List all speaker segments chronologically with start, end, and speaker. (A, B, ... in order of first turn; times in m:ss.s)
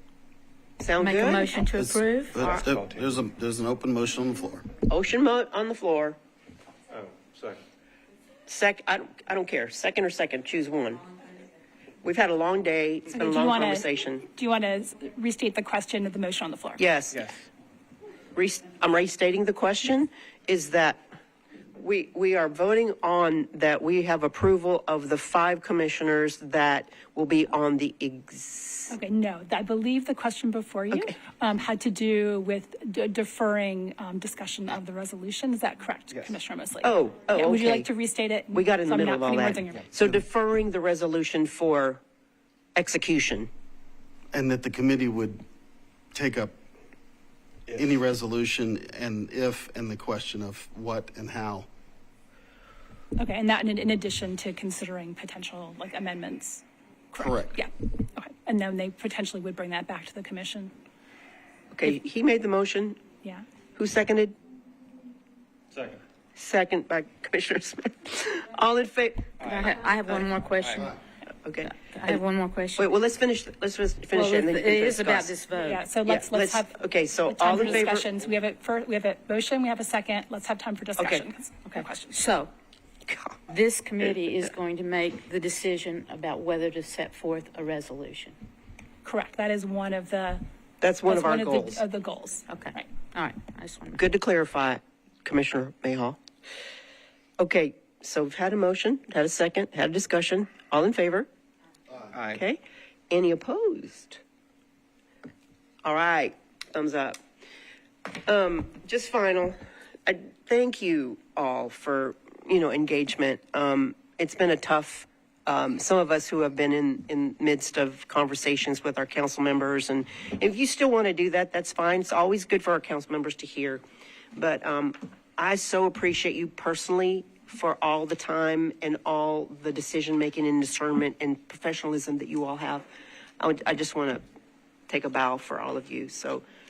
0:00.8-0:01.5 A
0:01.0-0:02.4 B
0:01.7-0:04.6 C
0:02.4-0:03.1 D
0:04.9-0:06.2 A
0:06.9-0:07.6 D
0:08.5-0:11.0 A
0:12.0-0:14.3 A
0:13.1-0:16.8 E
0:16.8-0:17.3 A
0:17.1-0:17.4 D
0:18.3-0:21.0 A
0:21.7-0:29.0 A
0:28.9-0:39.9 E
0:30.9-0:31.2 A
0:36.8-0:37.9 A
0:38.5-0:42.0 A
0:42.8-0:43.5 A
0:44.3-0:45.4 C
0:46.1-0:46.5 C
0:47.7-0:51.7 C
0:53.2-1:00.7 E
0:57.2-0:57.6 C
1:01.7-1:03.0 A
1:03.8-1:04.3 A
1:05.7-1:06.0 D
1:06.3-1:10.2 A
1:09.4-1:11.0 B
1:10.6-1:10.9 D
1:11.4-1:12.2 A
1:11.6-1:12.9 B
1:12.8-1:15.4 A
1:14.1-1:15.8 B
1:15.6-1:22.2 E
1:16.0-1:18.1 A
1:21.0-1:21.2 A
1:21.7-1:22.5 B
1:23.1-1:23.3 A
1:23.5-1:28.4 B
1:29.0-1:30.4 E
1:30.8-1:31.8 A
1:31.0-1:32.9 E
1:32.5-1:34.0 B
1:34.0-1:36.2 A
1:37.4-1:41.3 A
1:42.1-1:42.4 D
1:42.2-1:44.2 A
1:45.8-1:47.2 A
1:48.2-2:03.8 A
2:04.4-2:12.8 A
2:13.4-2:14.2 A
2:14.9-2:16.4 A